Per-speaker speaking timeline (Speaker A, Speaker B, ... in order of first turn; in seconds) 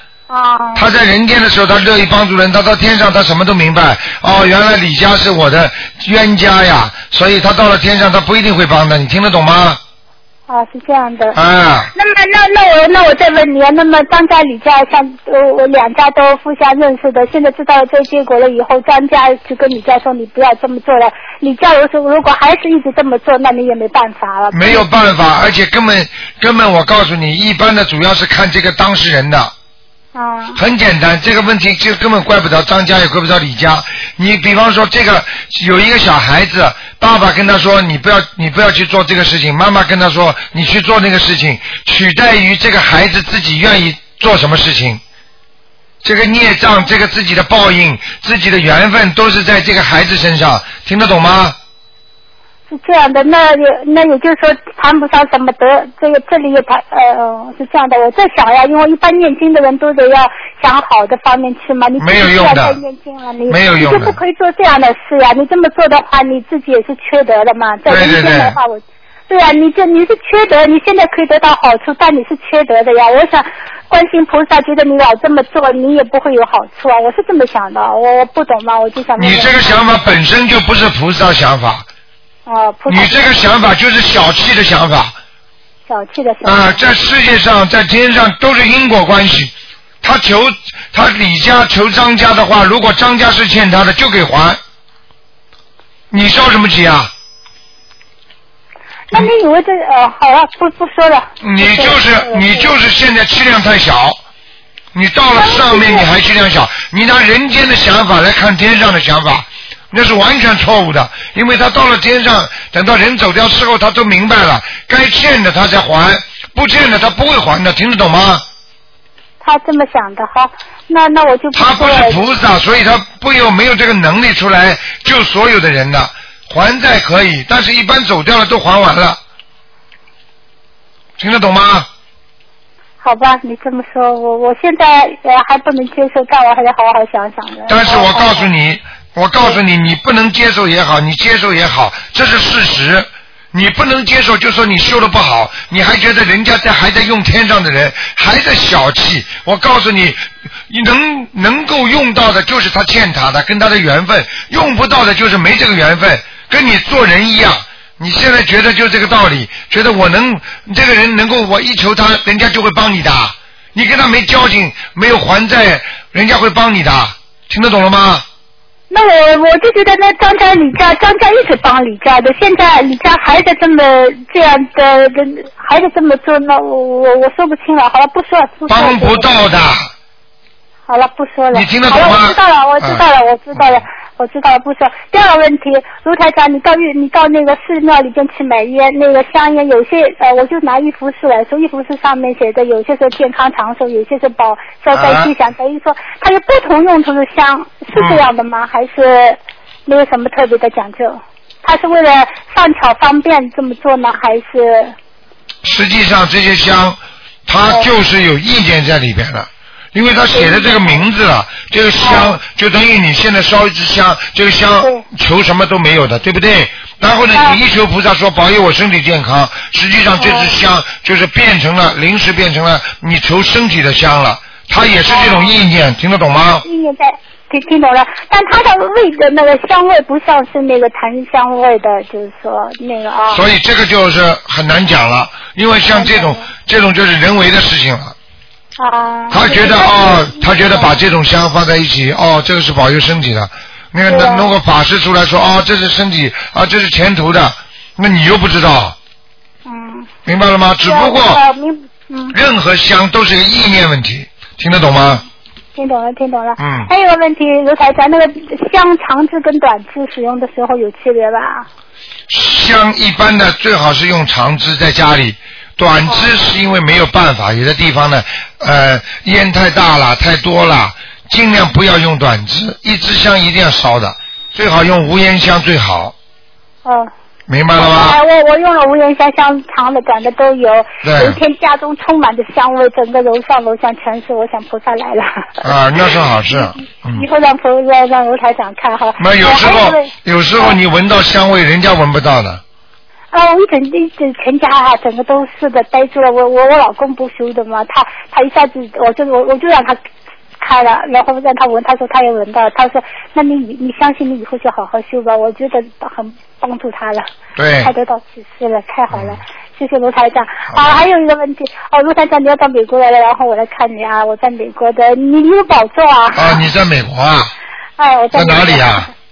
Speaker A: 0.3-0.8, 10.5-11.4, 11.9-24.9, 30.1-30.6, 52.7-80.1, 82.5-83.3, 85.9-86.8, 99.1-102.7, 105.3-106.1, 119.4-122.2, 133.0-138.5, 168.9-179.3, 180.9-204.9, 210.3-211.0, 212.0-212.4, 217.3-217.6, 220.2-220.5, 225.1-225.6, 226.6-233.4, 235.9-236.5, 238.8-241.0, 244.1-244.5, 249.7-250.1, 250.8-252.4, 255.7-261.7, 276.8-277.1, 277.8-290.8, 293.3-300.0, 300.6-307.3, 307.8-316.7, 318.0-319.1
Speaker B: 0.7-9.8, 11.3-11.9, 24.5-29.5, 30.6-45.0, 46.0-51.6, 62.0-62.8, 63.5-64.2, 67.8-68.6, 79.2-81.8, 82.9-85.1, 86.4-94.6, 96.1-97.1, 101.4-104.2, 104.9-118.4, 121.5-129.2, 131.2-131.9, 137.7-168.2, 178.7-179.9, 181.5-183.0, 183.5-183.8, 194.9-195.3, 197.9-198.2, 205.6-226.6, 233.3-238.2, 239.3-248.9, 250.2-251.4, 252.3-255.2, 256.6-256.9, 262.3-276.1, 277.5-278.2, 281.0-281.4, 285.6-287.2, 289.2-292.6, 307.6-307.9, 309.1-309.4, 310.7-311.0, 316.3-317.5, 318.3-319.1